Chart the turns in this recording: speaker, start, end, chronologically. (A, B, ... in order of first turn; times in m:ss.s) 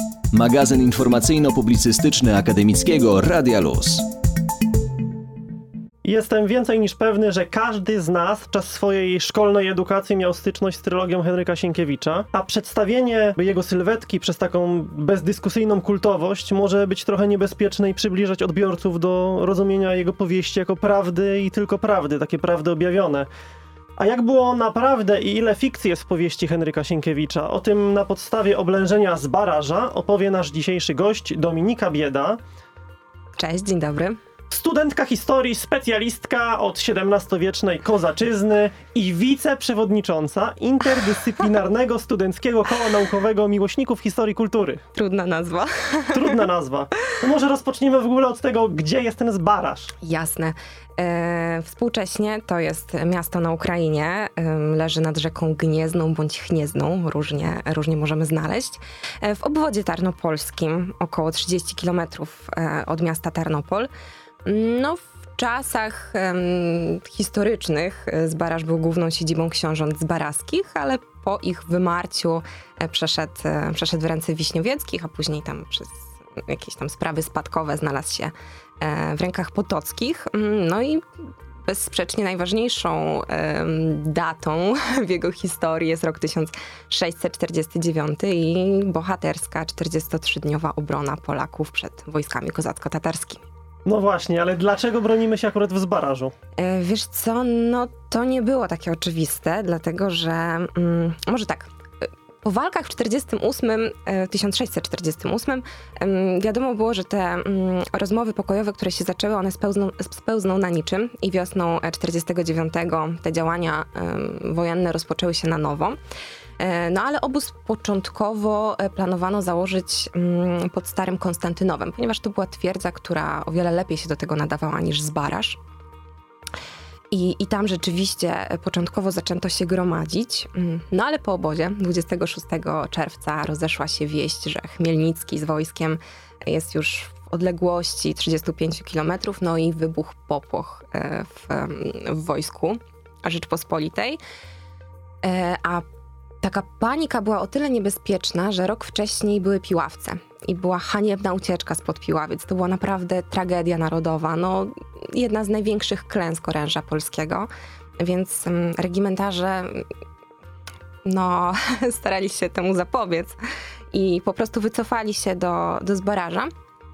0:00.3-0:04.0 A
0:06.0-0:23.3 B
0:24.0-0:32.4 B
0:33.4-0:34.2 C
0:34.5-0:44.8 B
0:44.9-0:46.4 C
0:46.1-0:49.9 B
0:50.0-1:03.9 C
1:04.4-1:21.0 C
1:21.6-1:33.4 C
1:33.8-1:36.3 B
1:36.6-1:41.7 C
1:42.4-1:56.0 C
1:56.6-2:05.6 C
2:07.1-2:24.2 C
2:25.2-2:25.8 C
2:26.4-2:39.9 C
2:41.0-2:43.4 C
2:43.9-2:46.5 C